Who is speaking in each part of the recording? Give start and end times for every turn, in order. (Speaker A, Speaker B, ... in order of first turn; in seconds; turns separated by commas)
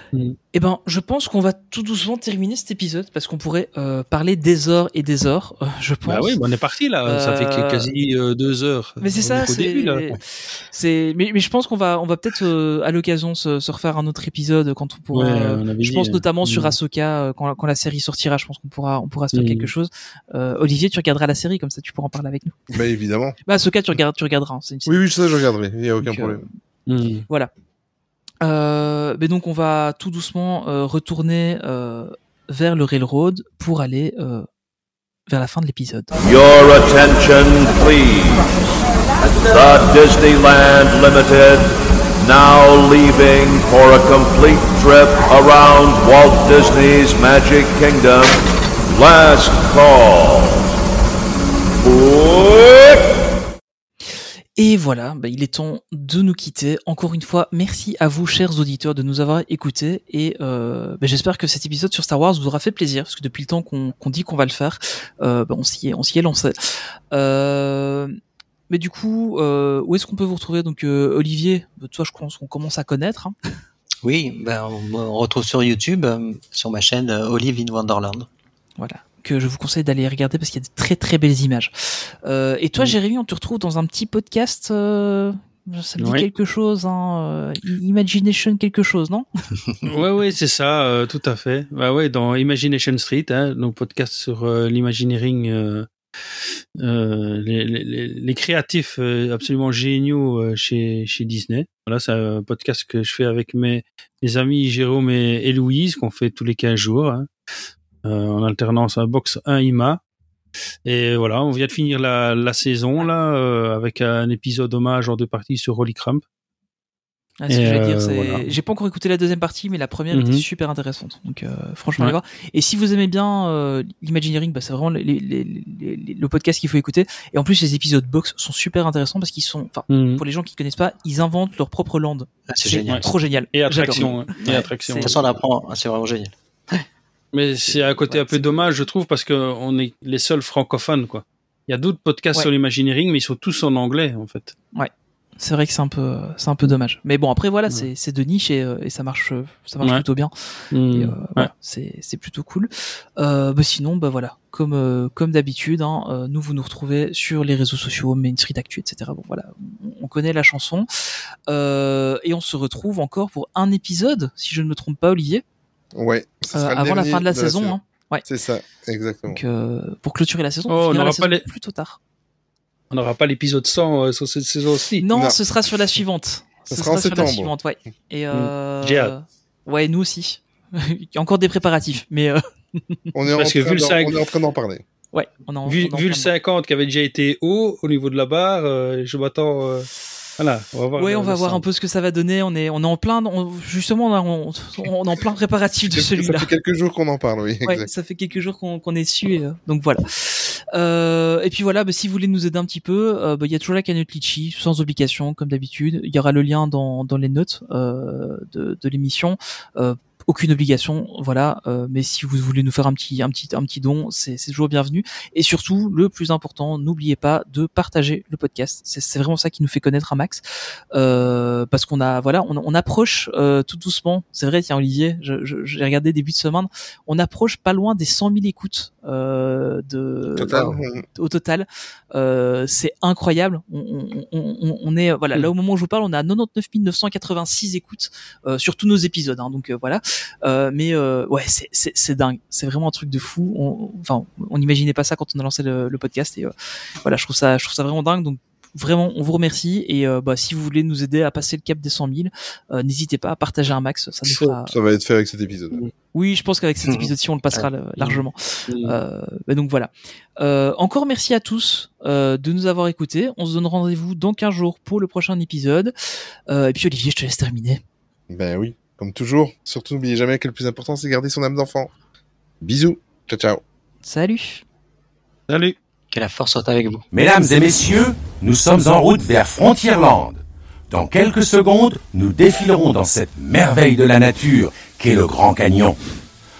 Speaker A: 0.5-6.3, Speaker B: 6.1-10.2, Speaker A: 7.0-7.9, Speaker A: 9.0-10.2, Speaker A: 10.7-22.6, Speaker B: 15.1-16.7, Speaker B: 19.3-19.7, Speaker C: 22.7-23.4, Speaker A: 23.4-25.0, Speaker C: 24.9-26.4, Speaker A: 26.0-26.4, Speaker B: 26.9-27.2, Speaker A: 28.4-34.5, Speaker A: 35.3-36.1, Speaker D: 36.2-38.5, Speaker D: 39.4-50.7, Speaker D: 51.8-53.1, Speaker A: 54.6-66.5, Speaker A: 67.1-68.2, Speaker A: 68.7-73.3, Speaker E: 74.0-78.3, Speaker A: 78.8-89.2, Speaker B: 86.0-86.2, Speaker B: 89.8-95.9, Speaker B: 96.8-107.3, Speaker B: 108.0-110.0, Speaker B: 110.8-116.2, Speaker A: 117.4-135.2, Speaker B: 117.5-118.5, Speaker B: 120.1-120.4, Speaker B: 129.9-130.2, Speaker E: 132.5-133.1, Speaker B: 133.5-135.2, Speaker E: 133.9-136.8, Speaker B: 137.3-144.5, Speaker A: 138.1-138.5, Speaker A: 144.7-150.3, Speaker B: 150.7-151.5, Speaker A: 150.9-160.9, Speaker A: 161.5-165.4, Speaker C: 165.9-169.4, Speaker A: 166.5-168.2, Speaker A: 169.3-172.0, Speaker B: 170.7-171.4, Speaker B: 172.9-175.1, Speaker A: 175.0-183.0, Speaker C: 175.1-175.4, Speaker C: 176.7-177.5, Speaker B: 178.3-179.1, Speaker C: 183.1-184.8, Speaker B: 183.3-184.2, Speaker A: 185.1-186.3, Speaker B: 185.7-191.6, Speaker A: 190.9-196.5, Speaker C: 195.9-197.9, Speaker A: 197.6-220.4, Speaker A: 220.9-246.5, Speaker C: 230.3-231.0, Speaker A: 247.0-254.7, Speaker C: 254.2-255.8, Speaker A: 256.1-265.9, Speaker E: 256.8-257.7, Speaker B: 258.0-259.0, Speaker A: 266.5-267.8, Speaker C: 268.3-271.9, Speaker C: 272.6-273.6, Speaker A: 274.0-274.6, Speaker B: 275.5-275.7, Speaker E: 276.1-277.1, Speaker F: 277.1-286.0